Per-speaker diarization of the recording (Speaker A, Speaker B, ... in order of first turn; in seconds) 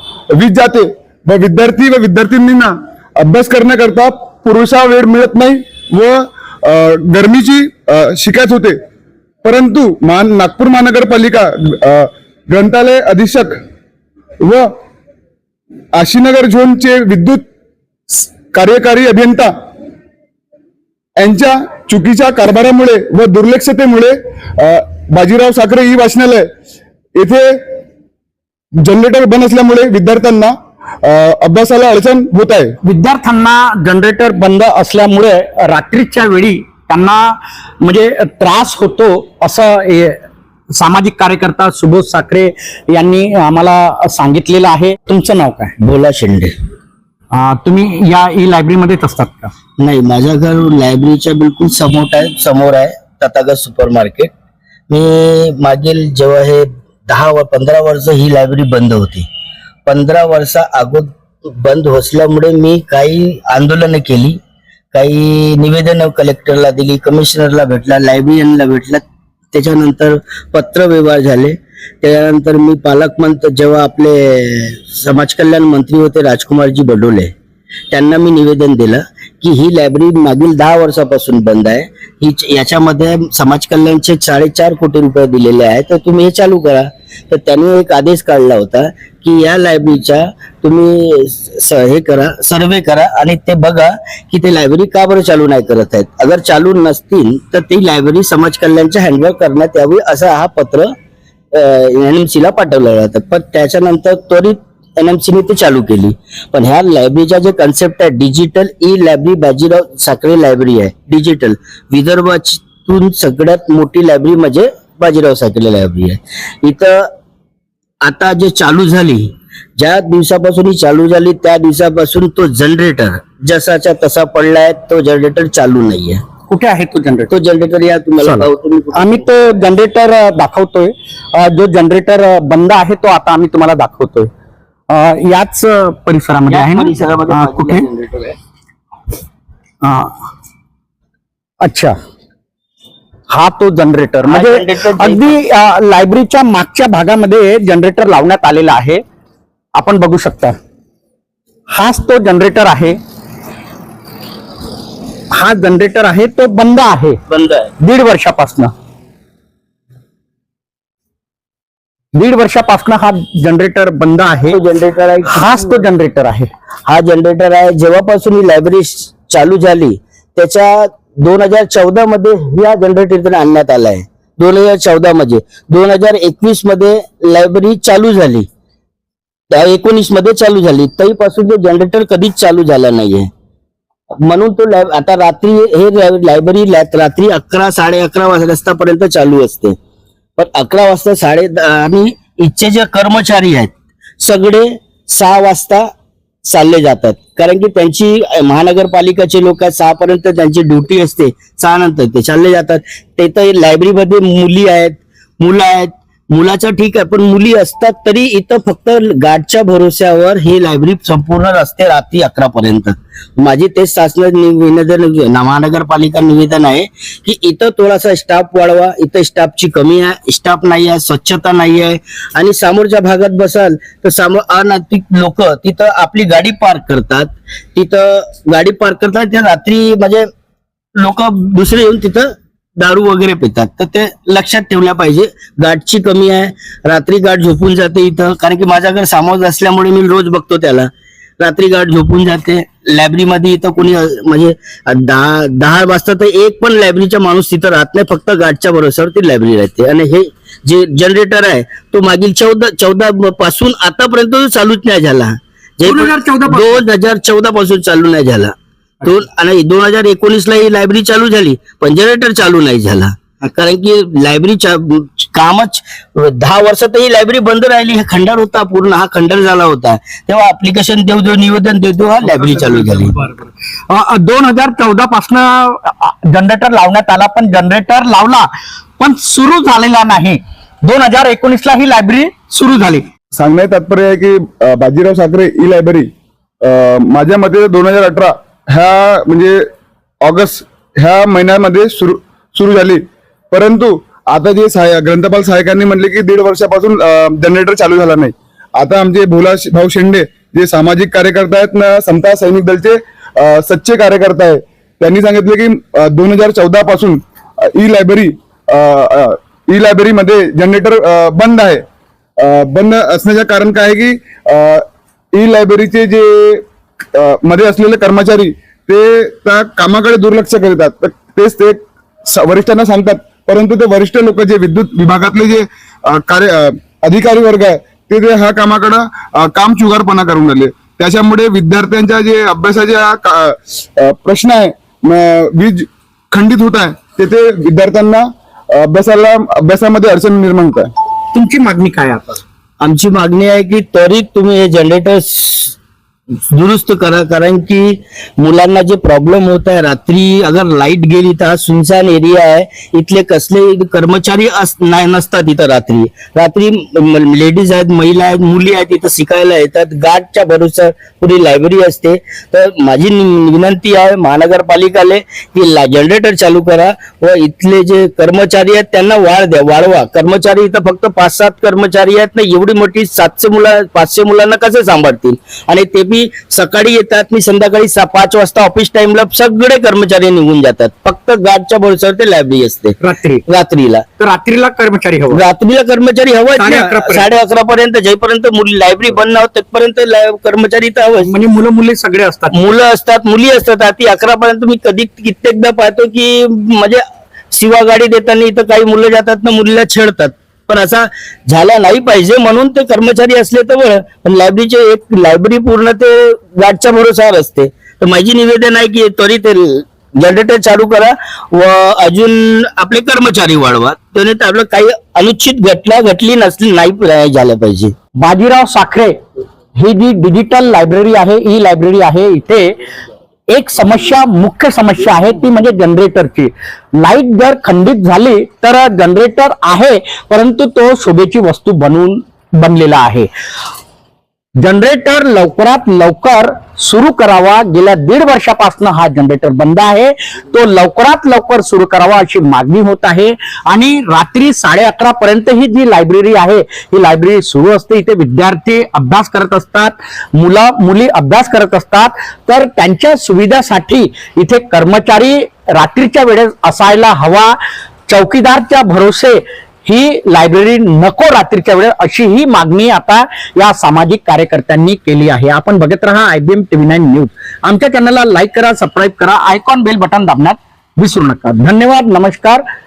Speaker A: 0.3-8.8, 9.4-13.6, 14.4-14.7, 15.9-17.4, 18.1-19.5, 21.2-26.5, 27.2-27.6, 28.8-32.8, 283.3-286.1, 286.6-289.7, 290.2-311.8, 312.4-316.6, 317.1-340.9
Speaker B: 32.8-40.2, 40.7-45.8, 47.3-49.5, 126.5-127.3, 128.2-134.3, 134.9-137.9, 139.8-140.2, 141.6-141.9, 143.3-149.0, 149.8-150.6, 151.7-153.0, 155.3-157.2, 157.8-158.7, 162.1-164.6, 165.3-166.5, 255.9-256.8, 273.2-283.1, 341.3-342.4, 383.0-383.4, 384.2-385.4, 386.6-387.3, 391.2-392.7, 418.2-419.2, 419.8-422.7, 423.5-433.3, 434.6-457.6, 458.1-472.6
Speaker C: 45.8-46.5, 49.8-54.3, 54.9-59.3, 59.9-64.4, 64.9-77.3, 77.9-100.9, 101.5-117.1, 118.0-126.2, 127.3-129.2, 136.5-138.4, 144.3-145.4, 157.3-157.7, 164.5-165.8, 166.9-178.5, 179.5-183.3, 184.2-189.8, 190.4-195.9, 196.5-230.3, 231.0-273.1, 342.8-345.8, 346.5-384.1, 385.3-391.3, 392.5-417.9